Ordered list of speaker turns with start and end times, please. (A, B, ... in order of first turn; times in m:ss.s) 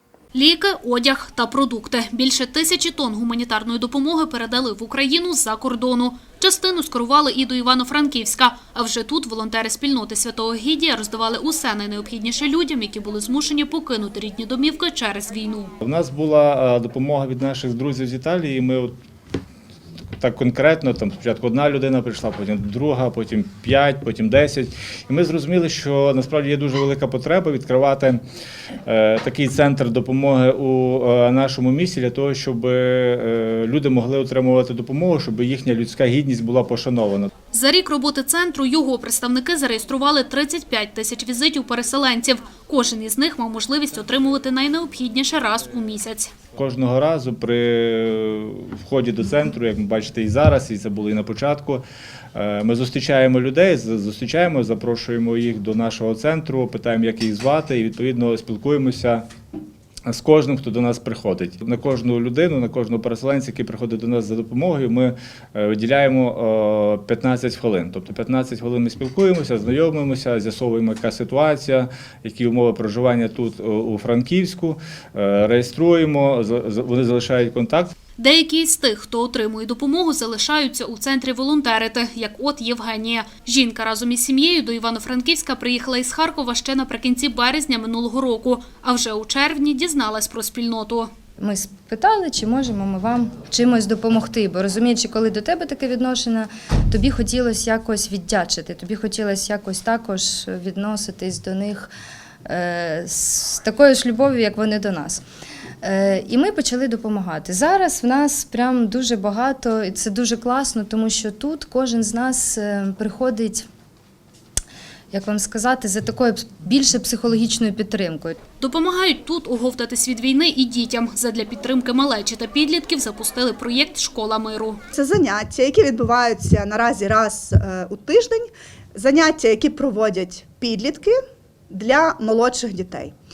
0:00.3-0:15.7 A
0:15.8-0:18.9 B
0:20.2-0:28.2 B
0:28.9-0:37.3 B
0:37.5-0:46.3 A
0:46.6-0:51.8 B
0:52.4-0:59.2 B
1:00.1-1:17.9 B
1:18.2-1:31.1 A
1:31.4-1:41.9 C
1:42.5-1:45.2 C
1:45.8-1:53.7 C
1:55.1-1:58.4 C
1:58.6-2:04.8 A
2:04.9-2:11.2 D
2:11.7-2:13.1 D